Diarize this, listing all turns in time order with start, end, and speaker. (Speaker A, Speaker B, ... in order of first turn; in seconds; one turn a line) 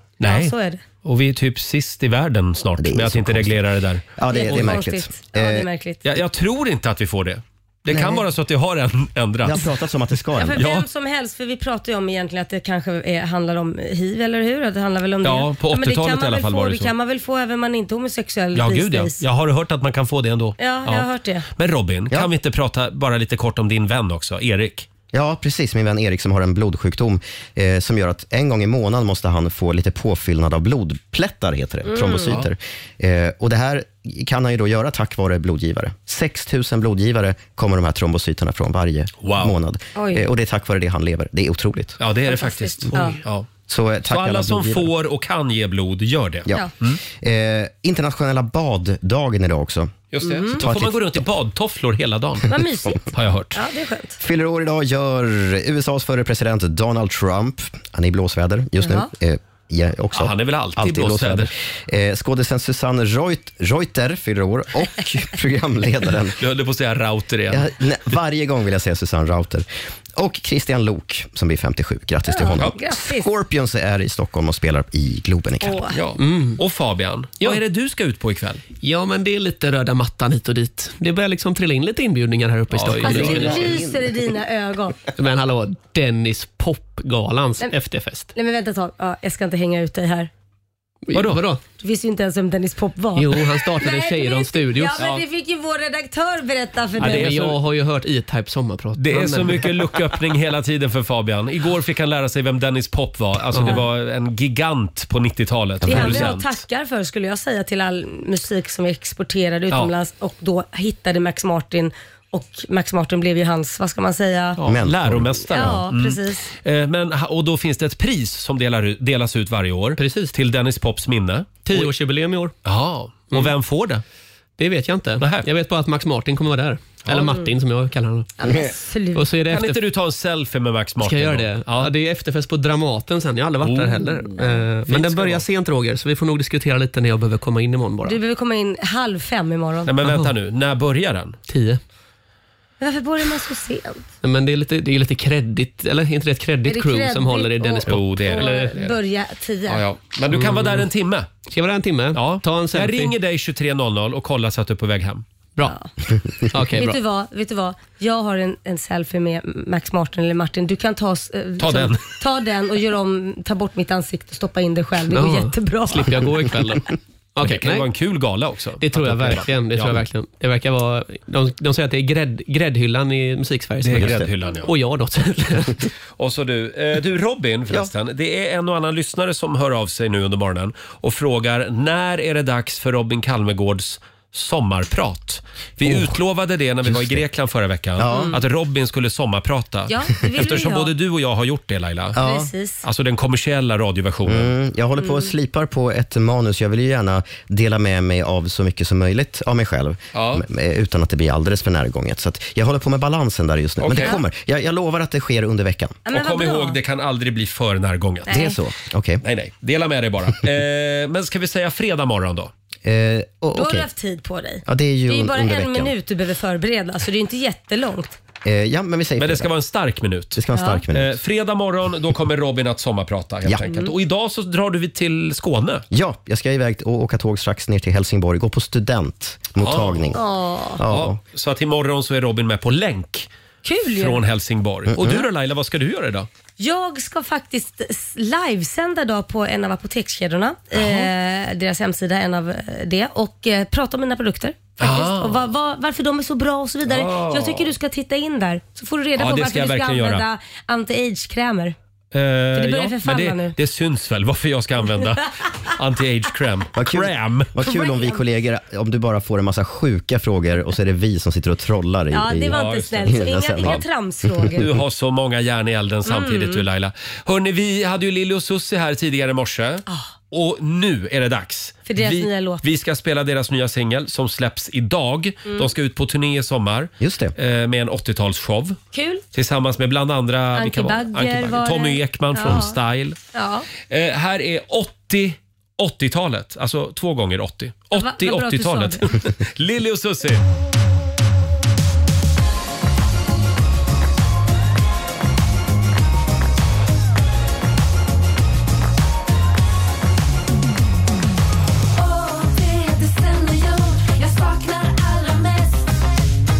Speaker A: 0.2-4.0
Speaker B: 0.2-0.8
Speaker C: 2.8-3.6
Speaker C: 4.2-5.7
Speaker B: 4.3-6.0
Speaker A: 6.0-9.6
Speaker C: 7.9-8.2
Speaker C: 9.4-10.6
Speaker B: 10.3-19.2
Speaker A: 10.5-10.8
Speaker A: 15.2-16.9
Speaker A: 18.5-24.9
Speaker B: 20.6-21.5
Speaker C: 25.1-42.0
Speaker B: 31.9-32.4
Speaker A: 39.2-39.5
Speaker B: 39.9-40.2
Speaker A: 42.0-43.5
Speaker B: 42.3-43.2
Speaker C: 43.7-44.9
Speaker A: 44.1-47.0
Speaker C: 46.5-49.9
Speaker A: 50.1-53.6
Speaker B: 50.2-50.6
Speaker C: 50.5-51.2
Speaker B: 52.5-53.0
Speaker B: 53.5-54.2
Speaker C: 54.2-66.4
Speaker B: 58.8-59.1
Speaker A: 60.1-61.5
Speaker A: 66.4-67.7
Speaker C: 67.5-75.9
Speaker B: 72.3-73.3
Speaker B: 75.6-76.0
Speaker A: 75.9-78.6
Speaker D: 76.2-76.6
Speaker D: 78.8-83.8
Speaker A: 82.7-83.7
Speaker B: 83.0-85.0
Speaker C: 83.1-84.1
Speaker D: 85.2-88.3
Speaker B: 88.3-90.3
Speaker D: 91.1-91.6
Speaker A: 91.1-91.4
Speaker B: 91.8-97.3
Speaker D: 93.2-95.1
Speaker A: 95.0-95.2
Speaker D: 97.0-99.9
Speaker A: 97.0-97.6
Speaker A: 99.0-106.5
Speaker D: 103.5-103.8
Speaker C: 105.8-106.3
Speaker B: 105.8-114.6
Speaker A: 114.6-121.9
Speaker C: 114.7-115.8
Speaker B: 115.5-116.5
Speaker D: 120.0-120.3
Speaker D: 121.6-122.5
Speaker A: 122.6-124.0
Speaker D: 124.6-128.3
Speaker A: 125.2-125.5
Speaker B: 127.1-127.5
Speaker B: 128.4-129.3
Speaker D: 129.1-129.8
Speaker A: 129.5-131.9
Speaker D: 131.0-138.2
Speaker A: 133.6-135.5
Speaker B: 138.0-139.9
Speaker A: 139.9-141.4
Speaker D: 140.0-140.3
Speaker D: 141.5-141.8
Speaker B: 142.8-144.1
Speaker D: 144.2-148.7
Speaker B: 146.6-149.8
Speaker A: 147.9-148.9
Speaker A: 149.7-151.3
Speaker D: 150.3-150.8
Speaker D: 151.4-153.2
Speaker A: 152.1-155.2
Speaker B: 155.6-155.9
Speaker D: 156.5-157.0
Speaker B: 156.7-166.3
Speaker A: 161.6-162.0
Speaker D: 165.1-167.9
Speaker A: 167.4-170.0
Speaker D: 168.8-175.9
Speaker A: 173.8-174.7
Speaker C: 174.0-174.3
Speaker A: 176.2-192.2
Speaker C: 185.8-186.1
Speaker C: 186.8-187.2
Speaker C: 188.0-188.3
Speaker B: 188.1-188.3
Speaker B: 189.9-190.9
Speaker C: 192.1-192.5
Speaker B: 192.2-192.8
Speaker A: 192.8-194.5
Speaker C: 194.2-206.0
Speaker B: 195.0-195.3
Speaker A: 200.1-200.4
Speaker A: 203.8-204.1
Speaker B: 206.1-206.8
Speaker A: 206.1-208.5
Speaker B: 208.3-208.6
Speaker C: 208.3-209.2
Speaker A: 209.2-212.5
Speaker C: 212.8-213.9
Speaker B: 213.5-218.2
Speaker C: 214.7-215.9
Speaker C: 218.4-219.5
Speaker A: 219.2-225.8
Speaker C: 220.3-221.2
Speaker B: 220.5-220.8
Speaker B: 223.6-223.9
Speaker C: 225.9-230.2
Speaker A: 229.6-230.2
Speaker B: 230.1-230.8
Speaker C: 230.8-231.2
Speaker A: 230.9-233.3
Speaker B: 233.6-234.2
Speaker A: 233.8-236.3
Speaker C: 234.9-235.2
Speaker B: 236.6-251.8
Speaker A: 240.7-241.1
Speaker A: 244.8-245.5
Speaker A: 246.8-247.7
Speaker A: 249.2-250.2
Speaker A: 252.1-257.5
Speaker B: 252.5-253.6
Speaker C: 256.7-263.8
Speaker B: 257.6-258.2
Speaker B: 262.1-264.6
Speaker A: 262.5-263.8
Speaker C: 264.4-264.8
Speaker A: 264.5-278.8
Speaker B: 266.1-266.6
Speaker B: 271.9-272.6
Speaker B: 275.5-275.7
Speaker C: 277.0-277.3
Speaker B: 278.9-279.2
Speaker A: 279.3-283.2
Speaker B: 280.5-282.8
Speaker B: 283.3-283.7
Speaker A: 283.9-290.4
Speaker B: 287.9-289.1
Speaker E: 301.9-306.1